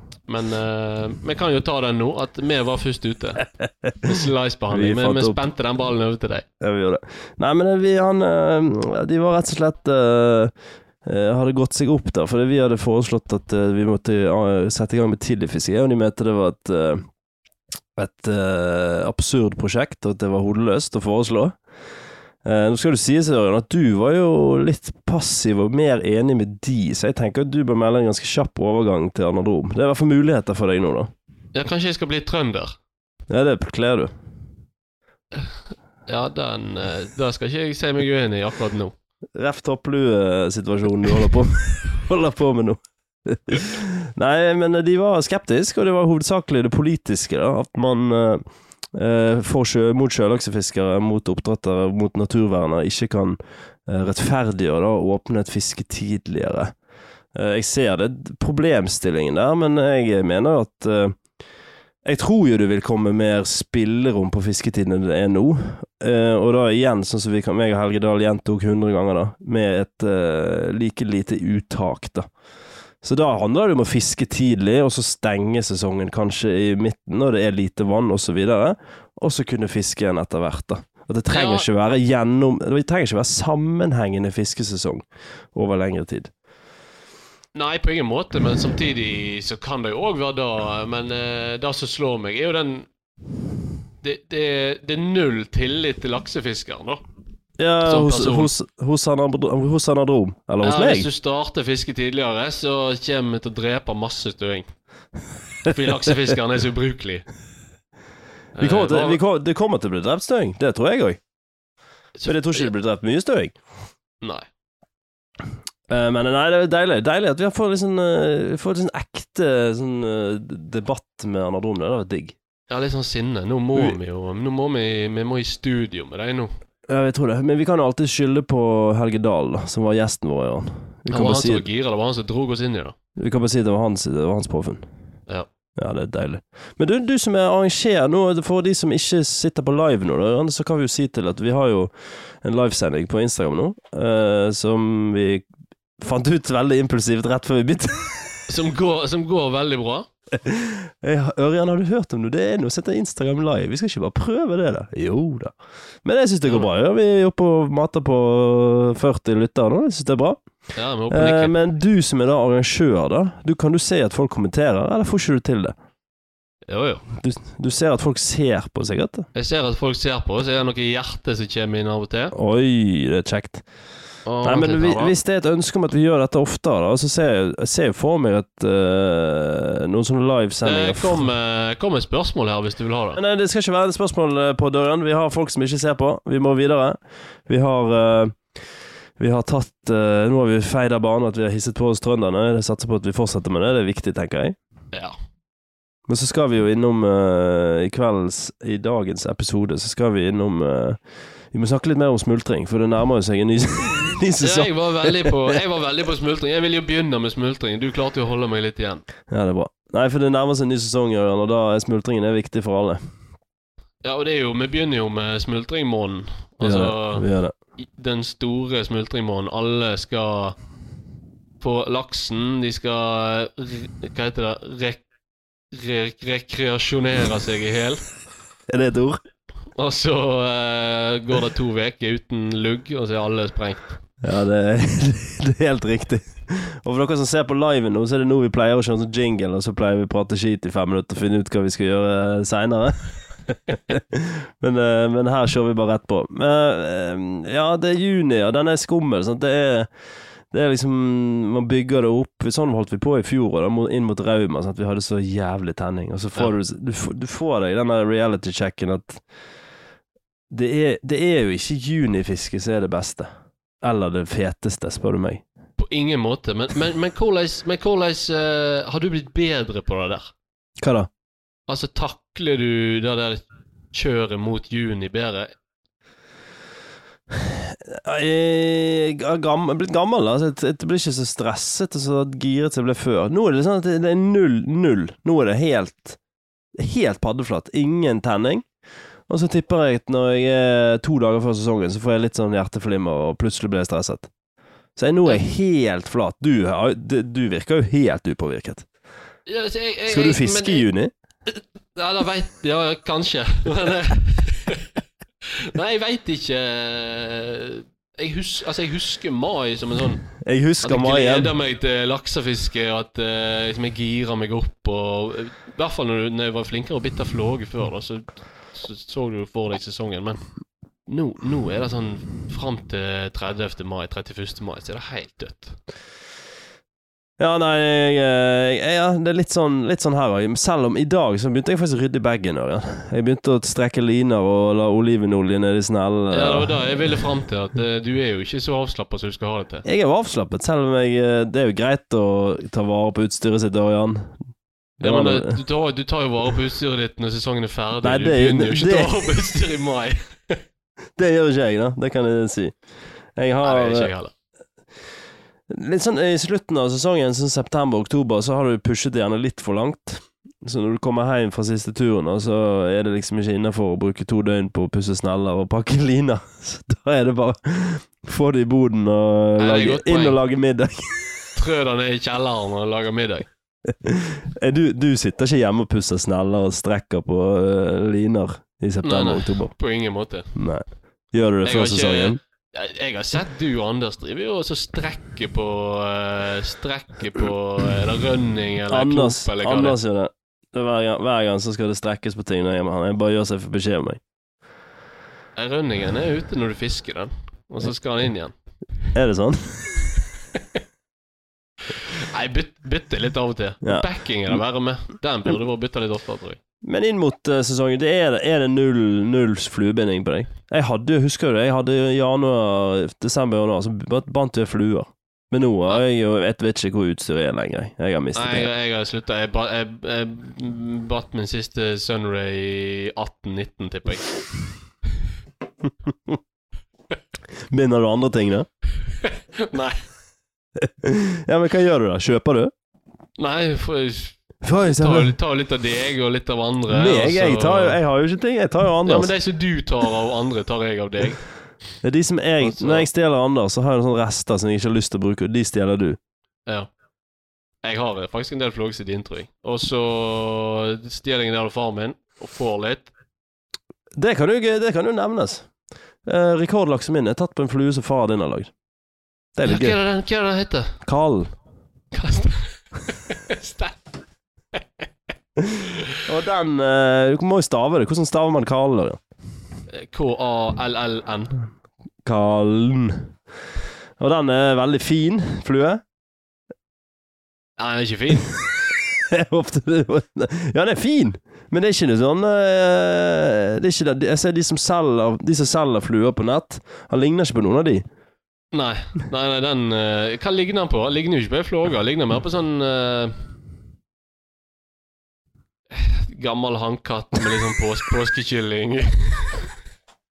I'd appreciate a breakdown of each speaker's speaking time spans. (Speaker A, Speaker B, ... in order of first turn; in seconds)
Speaker A: 0.3-3.4, 4.0-6.5, 31.5-32.8, 36.0-38.9, 81.3-81.7, 87.5-92.9, 94.0-97.0, 97.8-98.5, 100.6-104.7, 105.6-107.2, 108.5-109.2, 112.2-112.7, 114.2-114.5, 122.7-126.5, 131.1-132.9, 148.5-150.1, 160.8-161.5, 166.7-167.0, 169.3-172.3, 174.2-175.1, 180.6-183.2, 204.4-209.0, 214.0-217.2, 217.8-220.6, 221.6-225.0, 225.7-228.0, 229.7-233.9, 265.8-270.3, 271.7-275.5, 299.4-300.8, 301.5-304.9, 305.4-310.3, 310.8-320.4, 321.1-325.8, 336.3-339.8, 345.0-350.6, 353.6-354.3, 369.6-370.4, 371.6-373.5, 379.0-380.5, 381.6-390.0, 395.6-398.5, 401.9-406.6, 418.3-424.3, 429.1-430.0, 433.4-438.0, 439.0-441.4, 442.6-443.1, 446.6-446.9, 447.8-453.1, 459.6-460.9, 462.1-464.0, 464.7-465.0, 465.8-466.1, 469.9-471.6, 477.8-478.5, 488.7-493.3, 495.9-499.7
Speaker B: 4.7-5.4, 6.6-10.5, 11.0-17.1, 17.9-21.6, 22.4-31.1, 33.3-34.1, 39.3-56.7, 57.3-61.2, 62.0-72.3, 73.0-86.3, 97.6-101.1, 108.6-111.2, 112.2-113.6, 115.9-122.3, 126.9-131.6, 133.2-134.8, 135.8-141.9, 142.4-145.4, 146.0-148.5, 150.4-160.4, 161.1-165.8, 167.2-169.3, 172.3-173.6, 174.4-181.3, 183.1-188.4, 189.2-194.6, 196.1-201.0, 201.5-205.6, 209.3-213.0, 216.6-217.5, 228.7-229.2, 234.2-249.9, 250.5-259.2, 260.5-263.3, 263.8-265.4, 270.8-271.1, 277.3-286.2, 286.7-288.6, 289.3-294.3, 294.9-298.9, 300.1-301.1, 310.4-311.5, 327.4-336.8, 339.9-344.4, 345.0-345.6, 348.0-349.2, 351.2-352.8, 353.4-354.1, 355.7-371.6, 373.9-379.7, 380.5-382.4, 388.9-394.2, 399.1-400.1, 406.8-418.7, 427.7-428.7, 430.8-432.7, 434.6-435.3, 436.9-439.3, 442.0-446.2, 454.2-455.7, 456.2-458.7, 459.5-459.9, 461.0-461.5, 466.1-469.2, 472.2-473.3, 474.2-476.0, 479.1-488.0